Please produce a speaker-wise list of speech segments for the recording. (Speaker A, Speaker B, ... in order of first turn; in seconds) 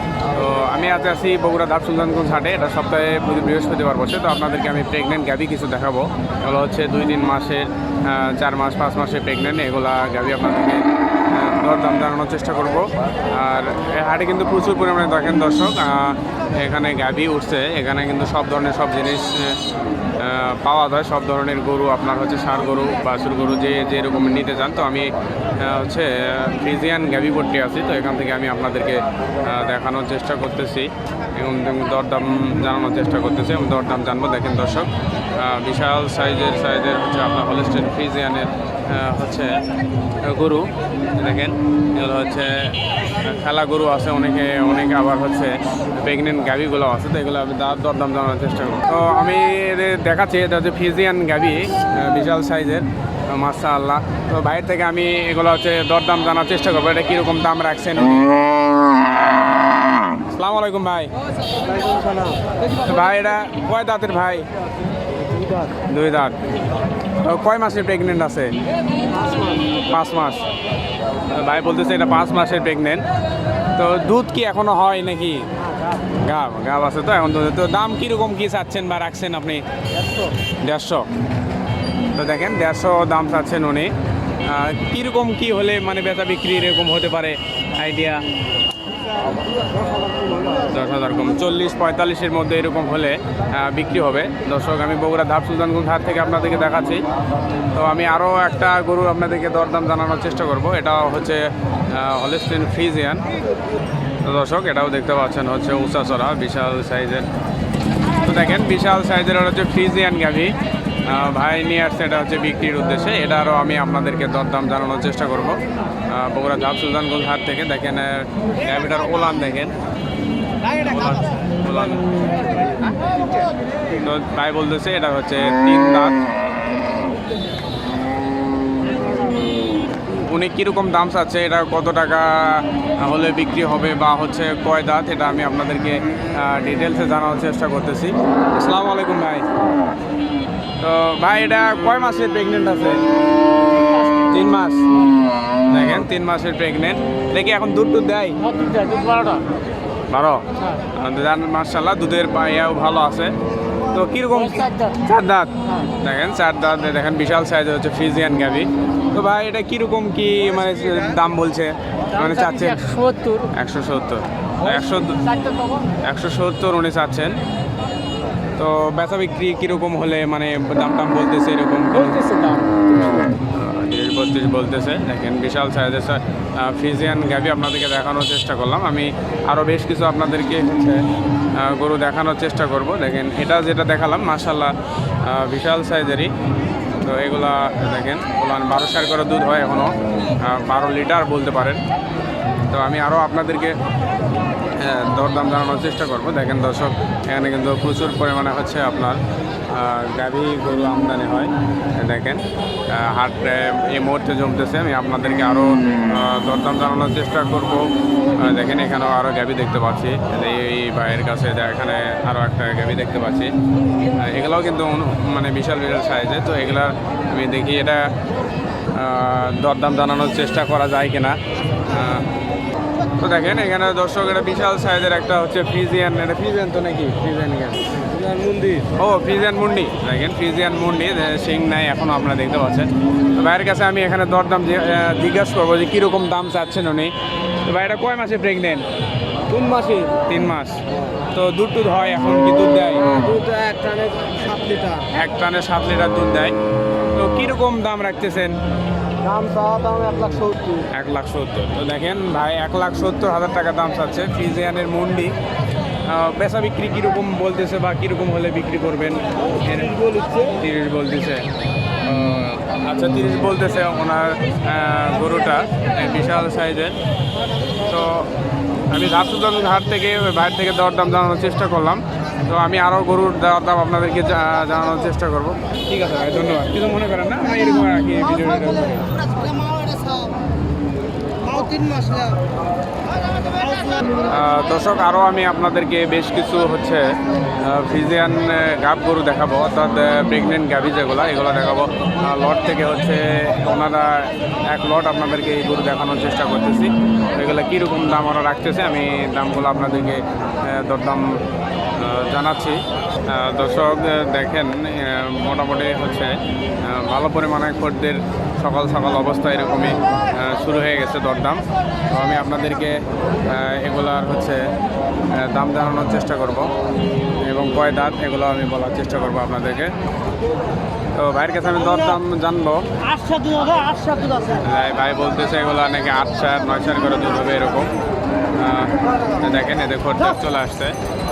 Speaker A: 0.3-19.6, 20.2-39.6, 40.2-58.2, 60.3-61.1, 62.8-64.5, 65.9-66.4, 67.2-68.5, 69.8-70.4, 71.3-73.0, 73.7-75.5, 76.2-79.6, 80.6-81.1, 82.1-83.9, 84.4-88.2, 90.6-97.0, 97.7-103.2, 104.2-107.3, 108.2-119.7, 120.7-122.1, 124.0-126.2, 130.1-139.4, 140.8-143.0, 144.3-144.9, 145.7-148.4, 150.1-153.3, 153.9-162.9, 163.5-165.3, 166.0-167.3, 168.6-172.3, 173.4-181.0, 181.6-186.3, 187.0-191.8, 192.7-193.7, 194.8-213.5, 214.1-218.1, 218.9-222.3, 223.2-227.9, 228.9-237.1, 237.6-238.8, 240.1-240.8, 241.3-243.1, 245.1-246.5, 247.1-248.6, 250.9-255.3, 256.1-261.4, 262.0-267.0, 267.8-268.3, 268.9-279.1, 284.2-301.4, 301.9-314.6, 315.3-316.7, 317.4-319.9, 321.1-323.0, 324.6-327.9, 328.6-330.9
Speaker B: 61.7-62.4, 69.2-69.5, 148.4-149.5, 162.8-163.4, 165.4-165.8, 172.1-173.3, 228.0-228.9, 239.5-240.2, 243.1-245.1, 249.2-250.9, 259.9-260.5, 279.5-280.2, 281.4-282.4, 323.1-324.6